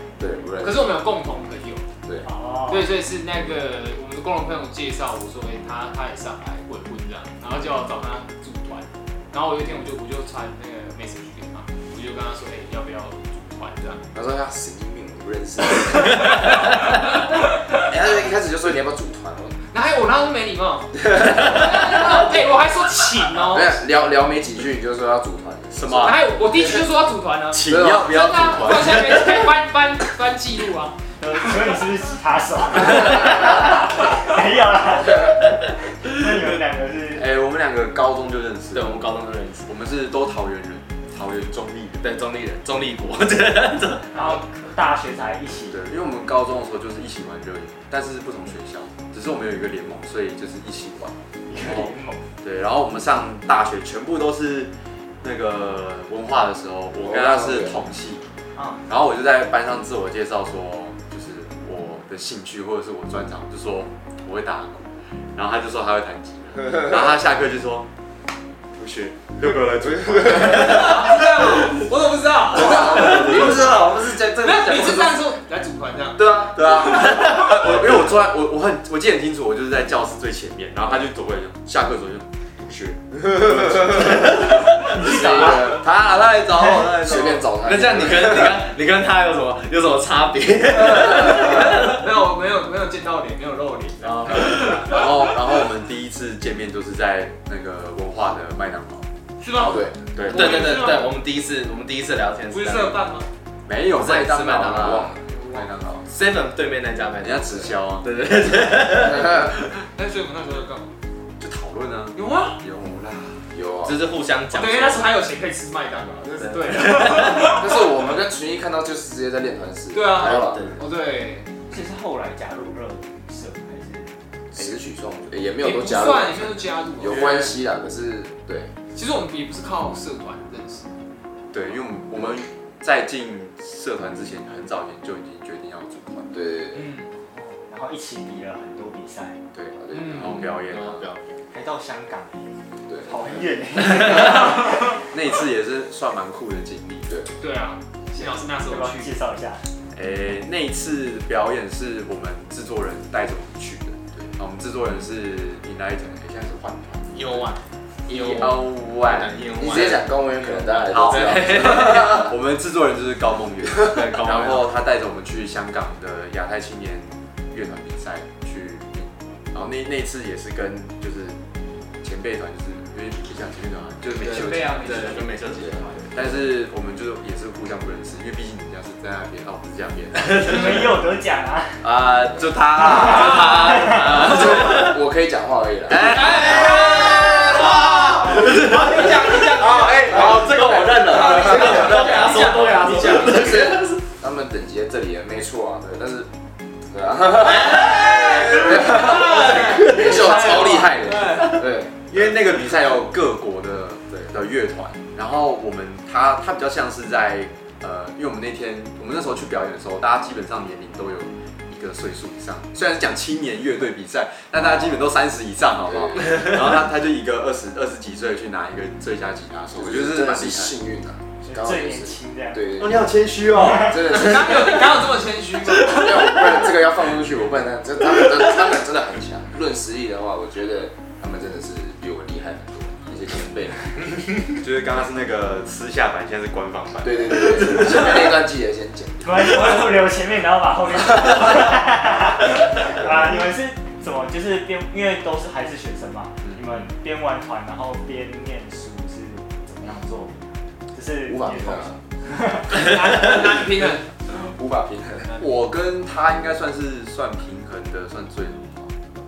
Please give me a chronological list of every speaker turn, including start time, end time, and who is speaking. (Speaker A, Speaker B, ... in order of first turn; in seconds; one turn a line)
Speaker A: 0.2-0.8
Speaker B: 0.6-1.9
Speaker C: 2.2-2.9
Speaker B: 2.7-14.0
Speaker A: 14.1-16.9
Speaker B: 17.2-17.8
Speaker A: 17.7-19.6
Speaker B: 19.7-23.8
Speaker A: 21.1-22.4
Speaker A: 23.5-26.6
Speaker D: 25.7-26.3
Speaker B: 26.0-31.0
Speaker D: 27.5-29.4
Speaker A: 27.6-29.1
Speaker C: 31.2-37.2
Speaker D: 37.1-39.1
Speaker E: 38.7-39.7
Speaker D: 39.6-42.0
Speaker E: 42.0-44.1
Speaker C: 44.1-45.8
Speaker D: 45.7-58.2
Speaker C: 51.5-52.2
Speaker A: 57.0-57.8
Speaker C: 58.5-58.8
Speaker D: 58.9-67.9
Speaker D: 68.7-71.7
Speaker A: 70.2-70.6
Speaker B: 70.5-76.2
Speaker A: 72.5-74.8
Speaker D: 72.5-75.0
Speaker A: 76.2-76.6
Speaker D: 76.2-87.5
Speaker A: 83.3-85.9
Speaker E: 84.0-84.8
Speaker A: 86.7-88.7
Speaker E: 87.6-92.0
Speaker A: 90.8-91.5
Speaker B: 91.3-95.1
Speaker E: 94.0-94.8
Speaker D: 94.3-99.0
Speaker B: 99.4-101.2
Speaker A: 99.6-100.0
Speaker D: 99.7-100.8
Speaker E: 100.2-103.0
Speaker B: 102.5-103.3
Speaker D: 103.7-106.1
Speaker E: 103.9-105.1
Speaker A: 104.7-105.2
Speaker B: 105.2-105.7
Speaker E: 106.1-109.7
Speaker D: 107.2-108.0
Speaker A: 108.9-109.5
Speaker B: 109.9-110.9
Speaker D: 111.4-113.4
Speaker B: 112.1-112.6
Speaker A: 113.5-114.0
Speaker E: 113.8-115.1
Speaker B: 114.5-117.8
Speaker E: 116.4-117.5
Speaker A: 117.5-120.8
Speaker B: 119.9-121.5
Speaker E: 120.1-120.8
Speaker C: 121.7-124.2
Speaker A: 124.5-128.7
Speaker B: 125.6-127.3
Speaker D: 127.0-127.6
Speaker B: 128.9-130.9
Speaker D: 131.5-136.3
Speaker A: 136.3-136.9
Speaker B: 136.7-137.1
Speaker C: 137.1-139.4
Speaker D: 139.5-141.1
Speaker A: 139.8-140.3
Speaker B: 139.9-140.4
Speaker E: 140.6-141.2
Speaker C: 141.5-142.5
Speaker A: 142.9-143.4
Speaker C: 143.0-145.0
Speaker D: 145.1-147.2
Speaker B: 147.4-149.2
Speaker C: 148.1-149.6
Speaker D: 149.9-157.5
Speaker E: 157.1-162.3
Speaker D: 158.1-160.0
Speaker A: 159.6-162.3
Speaker D: 160.8-171.4
Speaker E: 163.8-164.7
Speaker D: 172.0-175.3
Speaker E: 174.2-176.1
Speaker B: 174.3-175.4
Speaker D: 176.1-180.8
Speaker C: 180.3-181.8
Speaker D: 181.8-184.8
Speaker E: 183.0-185.0
Speaker B: 183.2-183.8
Speaker A: 184.0-186.6
Speaker D: 185.9-193.2
Speaker B: 186.1-189.8
Speaker E: 186.1-194.0
Speaker A: 190.1-192.0
Speaker B: 191.1-193.3
Speaker A: 192.9-196.3
Speaker A: 196.9-201.9
Speaker E: 197.4-201.5
Speaker B: 198.5-201.6
Speaker D: 202.1-220.7
Speaker A: 215.8-216.4
Speaker A: 219.7-225.1
Speaker C: 221.4-222.8
Speaker D: 222.8-224.6
Speaker B: 224.0-226.8
Speaker A: 225.6-234.0
Speaker D: 234.5-238.3
Speaker A: 237.0-239.8
Speaker C: 239.2-252.9
Speaker A: 251.3-252.0
Speaker B: 252.7-254.1
Speaker A: 253.2-253.6
Speaker A: 254.3-255.3
Speaker D: 255.4-259.1